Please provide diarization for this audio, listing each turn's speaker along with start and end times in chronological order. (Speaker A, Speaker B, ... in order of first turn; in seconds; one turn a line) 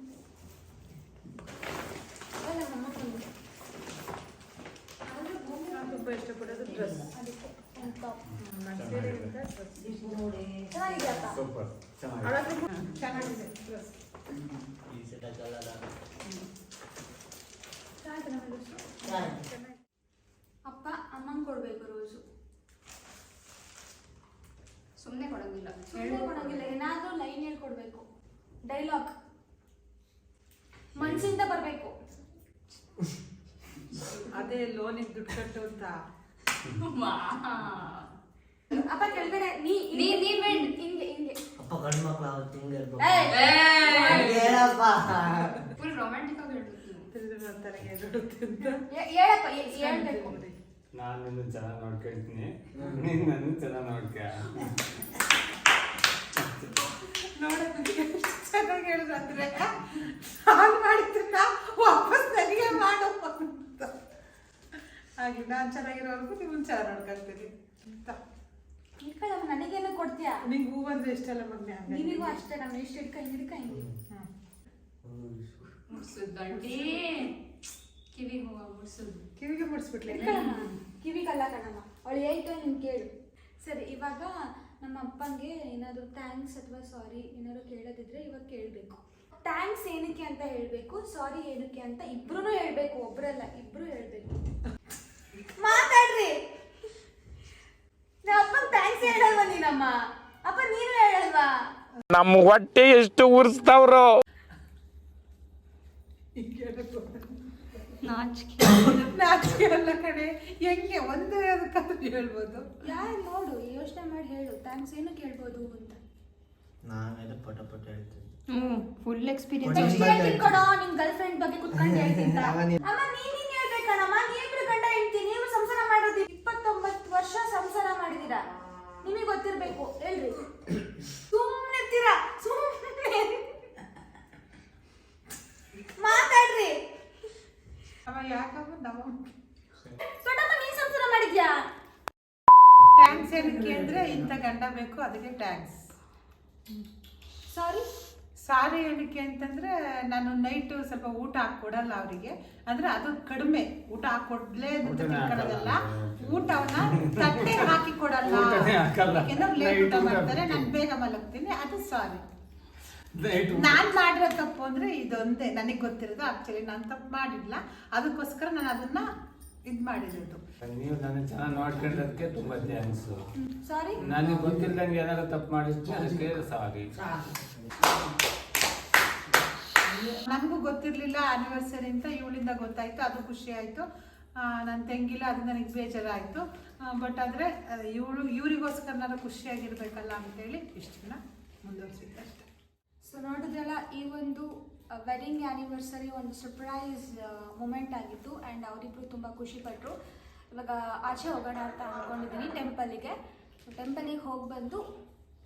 Speaker A: 2.4-3.3
Speaker A: 5.0-6.3
Speaker B: 5.7-7.1
Speaker C: 6.5-7.1
Speaker A: 7.0-8.2
Speaker D: 8.3-9.4
Speaker B: 8.4-9.9
Speaker C: 9.8-11.3
Speaker A: 10.7-11.4
Speaker D: 11.3-12.4
Speaker B: 12.2-13.9
Speaker C: 14.3-15.8
Speaker A: 18.0-18.9
Speaker C: 19.0-19.5
Speaker B: 19.5-19.8
Speaker A: 20.7-22.2
Speaker E: 25.0-26.6
Speaker A: 25.9-28.1
Speaker A: 28.6-29.1
Speaker A: 30.9-31.9
Speaker D: 31.0-31.3
Speaker B: 34.3-36.0
Speaker E: 36.7-38.1
Speaker A: 38.7-41.4
Speaker E: 39.9-40.7
Speaker C: 41.6-45.6
Speaker A: 43.0-44.5
Speaker E: 43.3-44.6
Speaker E: 45.8-47.1
Speaker B: 47.1-48.8
Speaker A: 48.9-50.4
Speaker B: 49.7-50.5
Speaker D: 50.9-54.7
Speaker D: 56.4-56.8
Speaker B: 57.1-63.9
Speaker B: 64.8-68.2
Speaker A: 69.0-70.4
Speaker B: 70.5-72.4
Speaker A: 71.9-73.9
Speaker C: 75.0-75.5
Speaker E: 75.9-77.3
Speaker E: 78.1-79.2
Speaker B: 79.4-80.6
Speaker A: 80.1-83.1
Speaker A: 83.6-94.5
Speaker A: 95.6-96.3
Speaker A: 98.2-101.5
Speaker F: 102.1-104.2
Speaker B: 106.4-107.8
Speaker E: 108.0-109.1
Speaker B: 109.1-112.7
Speaker A: 112.8-116.0
Speaker C: 116.9-118.3
Speaker E: 118.5-120.4
Speaker A: 119.7-128.4
Speaker A: 129.0-130.5
Speaker A: 131.1-133.5
Speaker A: 136.0-136.8
Speaker B: 138.1-139.3
Speaker A: 140.0-141.7
Speaker B: 142.9-145.8
Speaker A: 147.5-147.9
Speaker B: 148.4-162.2
Speaker D: 154.8-160.7
Speaker D: 163.2-163.8
Speaker B: 163.5-169.1
Speaker B: 169.7-170.4
Speaker D: 170.6-173.2
Speaker A: 173.4-174.0
Speaker D: 174.0-176.9
Speaker C: 177.0-178.0
Speaker C: 179.8-180.2
Speaker B: 180.3-183.8
Speaker B: 184.4-192.5
Speaker A: 193.0-199.9
Speaker A: 200.5-204.8